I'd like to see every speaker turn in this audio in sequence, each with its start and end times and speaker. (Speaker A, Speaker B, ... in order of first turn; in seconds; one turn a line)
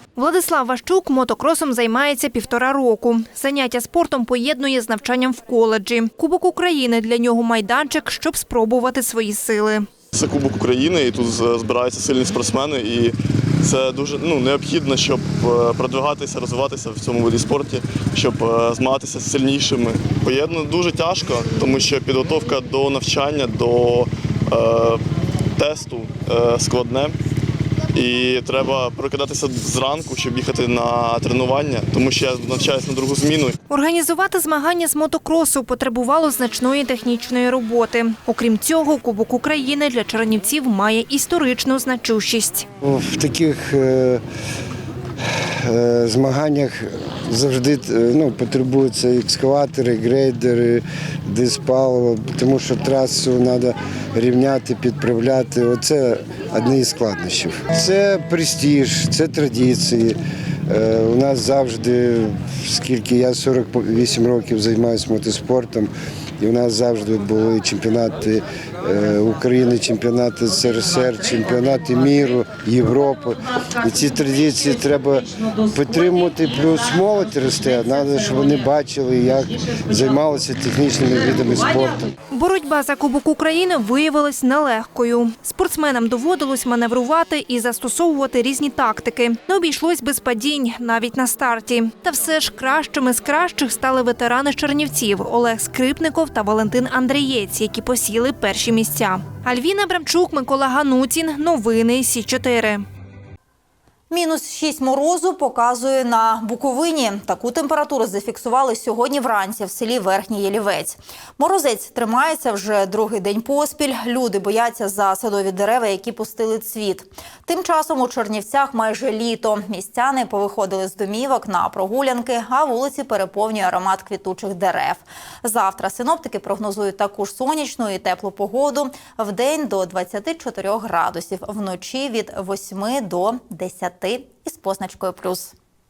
Speaker A: 0.2-9.9
Speaker B: 10.1-25.0
Speaker B: 25.6-27.1
Speaker B: 27.9-33.6
Speaker A: 33.7-42.6
Speaker C: 42.8-44.2
Speaker C: 45.6-60.2
Speaker C: 60.7-82.1
Speaker A: 82.3-102.8
Speaker D: 104.1-135.5